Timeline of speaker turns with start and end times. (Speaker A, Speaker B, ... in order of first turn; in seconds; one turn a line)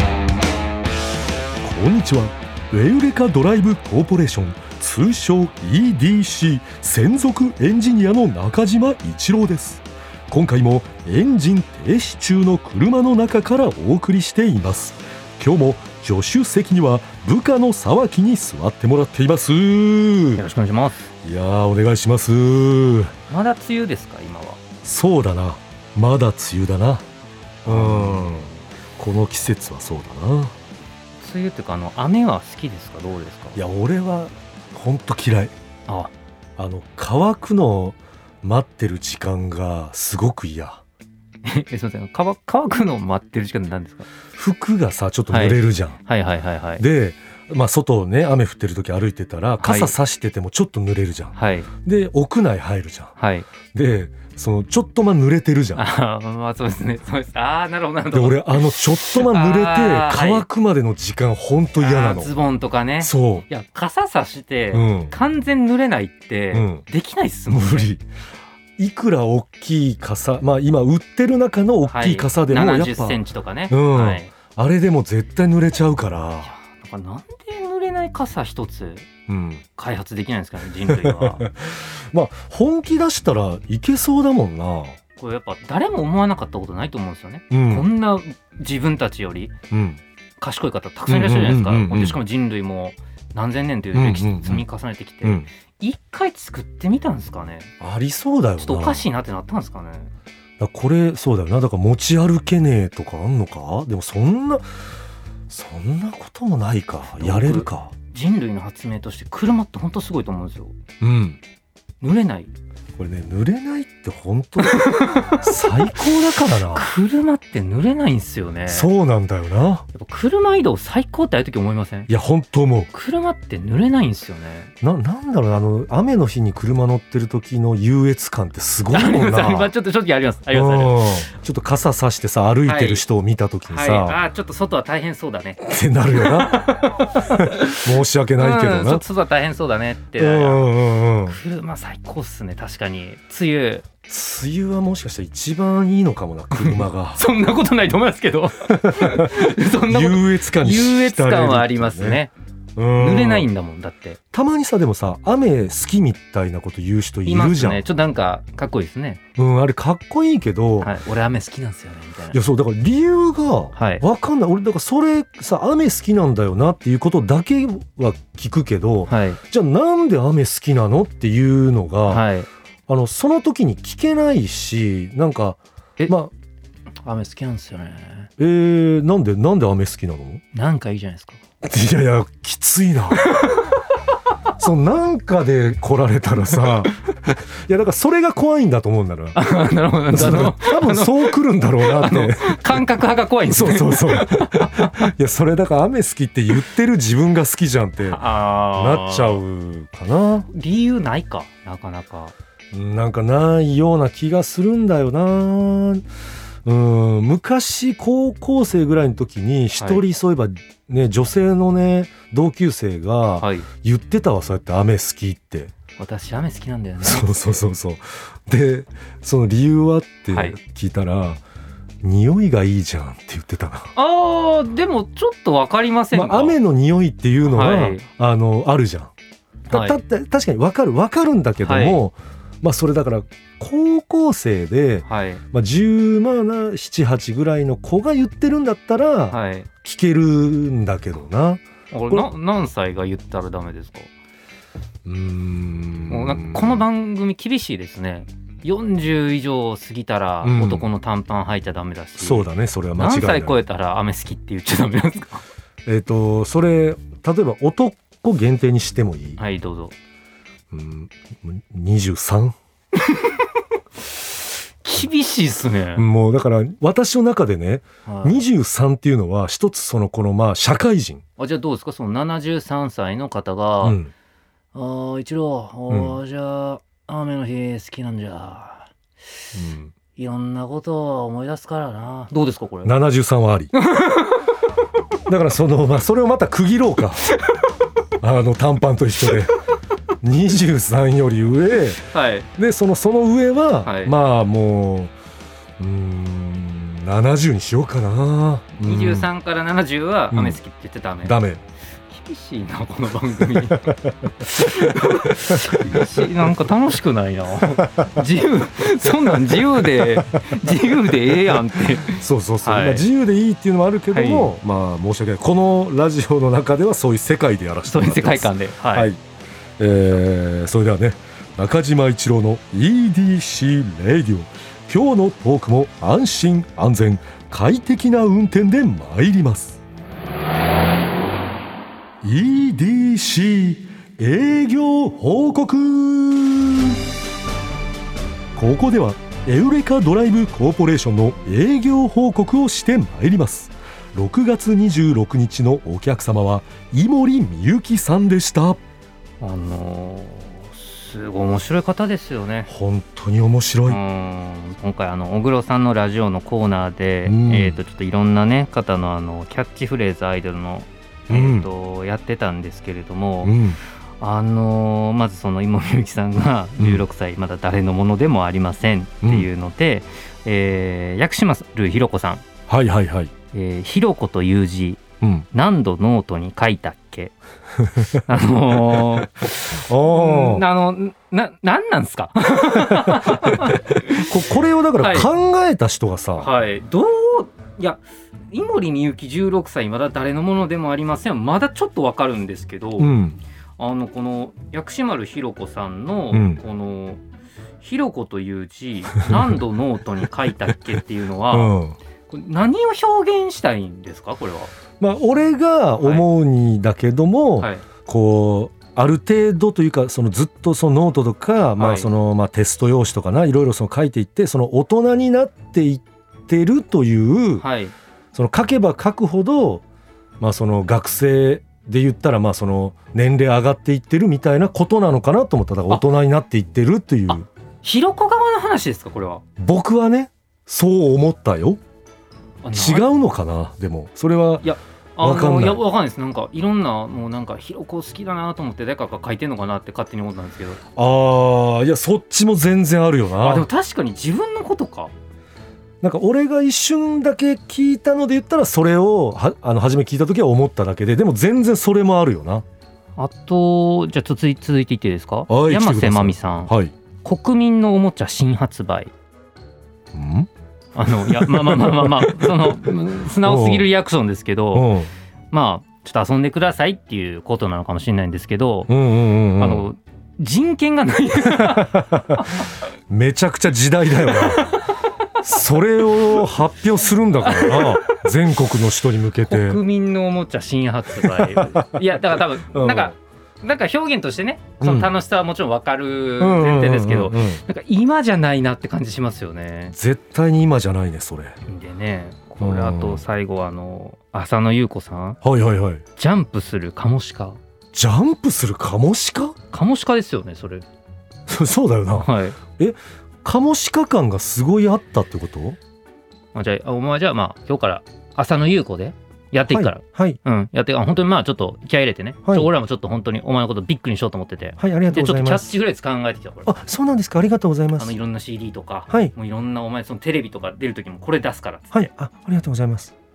Speaker A: 1.6-20.4
Speaker B: 20.4-21.0
Speaker A: 21.2-23.1
Speaker B: 23.3-24.6
Speaker A: 24.8-27.1
Speaker B: 27.6-28.6
Speaker A: 27.6-30.6
Speaker B: 31.2-33.6
Speaker A: 33.5-35.5
Speaker A: 36.6-40.8
Speaker B: 41.5-44.1
Speaker A: 44.4-46.0
Speaker B: 45.3-46.8
Speaker A: 46.8-53.1
Speaker B: 49.6-49.9
Speaker B: 51.4-51.7
Speaker B: 53.2-53.5
Speaker A: 53.7-55.9
Speaker B: 55.8-60.5
Speaker A: 58.1-62.3
Speaker B: 61.8-67.9
Speaker A: 63.0-63.5
Speaker A: 64.7-65.1
Speaker A: 66.5-66.8
Speaker A: 67.5-68.0
Speaker A: 68.8-73.2
Speaker B: 71.9-74.3
Speaker A: 73.7-76.5
Speaker B: 76.5-79.1
Speaker A: 79.3-79.6
Speaker B: 79.8-81.5
Speaker A: 80.8-85.0
Speaker B: 85.2-89.5
Speaker A: 87.5-87.9
Speaker A: 89.7-90.0
Speaker B: 90.4-97.7
Speaker A: 91.1-92.2
Speaker A: 93.9-94.7
Speaker A: 97.8-99.0
Speaker B: 98.6-100.1
Speaker A: 100.6-104.7
Speaker A: 105.5-107.9
Speaker B: 107.1-110.8
Speaker A: 111.0-111.4
Speaker B: 112.0-112.5
Speaker A: 113.0-116.9
Speaker B: 114.6-116.0
Speaker B: 116.5-118.9
Speaker A: 118.7-119.9
Speaker B: 119.9-122.1
Speaker A: 122.1-122.9
Speaker B: 122.9-124.7
Speaker A: 124.8-129.7
Speaker B: 128.9-131.1
Speaker A: 130.5-134.2
Speaker B: 132.7-133.0
Speaker B: 133.7-140.7
Speaker A: 135.6-139.0
Speaker A: 140.2-141.4
Speaker B: 141.3-143.8
Speaker A: 144.1-147.2
Speaker B: 146.6-152.3
Speaker A: 148.7-152.2
Speaker A: 152.8-153.5
Speaker B: 152.9-154.2
Speaker A: 154.3-157.8
Speaker B: 157.3-159.2
Speaker A: 159.4-160.9
Speaker B: 160.8-162.4
Speaker A: 162.3-172.2
Speaker B: 163.8-164.0
Speaker B: 169.1-169.4
Speaker B: 172.1-172.5
Speaker A: 172.9-176.3
Speaker B: 177.0-178.3
Speaker A: 178.4-180.4
Speaker B: 180.5-181.4
Speaker A: 181.6-183.3
Speaker B: 183.2-183.8
Speaker A: 184.6-189.4
Speaker B: 189.3-195.1
Speaker A: 190.1-192.8
Speaker A: 193.5-200.5
Speaker B: 198.1-199.4
Speaker B: 200.5-202.3
Speaker A: 202.7-206.1
Speaker A: 206.7-215.7
Speaker B: 213.4-213.7
Speaker B: 216.0-217.6
Speaker A: 217.0-221.4
Speaker B: 220.3-220.6
Speaker A: 222.0-223.9
Speaker B: 223.9-226.6
Speaker A: 226.1-229.1
Speaker B: 227.4-228.1
Speaker B: 229.7-230.0
Speaker A: 229.7-242.3
Speaker B: 231.6-232.0
Speaker B: 235.1-235.4
Speaker B: 239.3-239.7
Speaker B: 241.9-244.1
Speaker A: 245.1-246.8
Speaker B: 246.1-255.4
Speaker A: 250.4-250.9
Speaker A: 252.2-253.6
Speaker A: 255.9-259.4
Speaker B: 259.4-259.9
Speaker A: 260.7-262.6
Speaker B: 263.0-263.4
Speaker B: 264.8-266.1
Speaker A: 266.0-271.2
Speaker B: 268.1-268.4
Speaker B: 271.4-274.0
Speaker A: 273.8-274.1
Speaker B: 274.7-278.9
Speaker A: 275.9-276.2
Speaker A: 279.6-279.9
Speaker B: 280.1-282.9
Speaker A: 282.9-283.7
Speaker B: 283.8-284.5
Speaker A: 285.3-287.3
Speaker A: 288.2-289.5
Speaker A: 290.2-292.0
Speaker B: 292.0-292.5
Speaker A: 292.6-295.1
Speaker B: 293.8-294.2
Speaker A: 295.8-299.3
Speaker B: 298.8-301.4
Speaker A: 300.3-300.6
Speaker A: 301.2-301.6
Speaker B: 302.1-313.1
Speaker A: 303.5-306.2
Speaker A: 307.8-308.2
Speaker A: 310.0-310.4
Speaker A: 312.1-319.2
Speaker B: 314.1-314.5
Speaker B: 317.9-319.1
Speaker A: 319.8-329.8
Speaker A: 332.2-337.0
Speaker A: 338.6-348.8
Speaker B: 349.4-352.7
Speaker A: 352.7-354.0
Speaker B: 353.9-363.6
Speaker A: 357.3-357.8
Speaker A: 361.3-361.7
Speaker A: 363.4-363.8
Speaker B: 364.2-372.4
Speaker A: 369.2-369.5
Speaker A: 372.7-373.3
Speaker B: 373.5-377.3
Speaker A: 375.2-375.5
Speaker A: 377.8-378.2
Speaker B: 378.1-384.4
Speaker A: 378.9-380.6
Speaker A: 382.8-386.5
Speaker B: 385.0-385.3
Speaker B: 386.4-388.0
Speaker B: 388.5-393.1
Speaker A: 393.0-393.4
Speaker B: 393.8-397.2
Speaker A: 396.3-396.6
Speaker B: 397.8-401.7
Speaker A: 399.2-399.5
Speaker A: 401.5-402.0
Speaker B: 402.3-404.7
Speaker A: 405.0-417.6
Speaker B: 406.0-406.2
Speaker B: 407.6-407.8
Speaker B: 411.8-412.1
Speaker B: 417.6-417.9
Speaker A: 418.3-419.8
Speaker A: 420.4-427.5
Speaker B: 427.3-429.4
Speaker A: 429.6-431.8
Speaker B: 432.6-433.1
Speaker A: 432.7-434.7
Speaker B: 434.6-440.8
Speaker A: 435.2-435.8
Speaker A: 441.0-443.7
Speaker B: 443.4-445.1
Speaker A: 446.0-452.6
Speaker B: 453.2-459.1
Speaker A: 455.5-456.9
Speaker A: 460.1-460.5
Speaker B: 461.0-464.9
Speaker A: 461.2-462.9
Speaker A: 463.4-463.9
Speaker A: 464.7-465.1
Speaker B: 465.5-468.9
Speaker A: 468.9-469.9
Speaker B: 469.6-472.8
Speaker A: 471.5-472.5
Speaker A: 473.1-474.8
Speaker B: 474.3-475.1
Speaker A: 475.4-479.8
Speaker B: 476.1-476.4
Speaker B: 477.4-478.2
Speaker B: 479.5-489.9
Speaker A: 481.2-482.0
Speaker A: 482.7-483.1
Speaker A: 484.8-485.1
Speaker A: 486.4-487.6
Speaker A: 489.9-491.6
Speaker B: 491.7-495.4
Speaker A: 492.6-493.2
Speaker A: 495.4-496.0
Speaker B: 496.2-497.6
Speaker A: 497.9-499.6
Speaker B: 499.7-500.9
Speaker A: 501.5-505.8
Speaker B: 502.1-502.6
Speaker B: 506.6-516.7
Speaker A: 509.7-510.4
Speaker A: 514.8-515.8
Speaker A: 516.7-518.1
Speaker B: 518.0-521.9
Speaker A: 521.9-523.1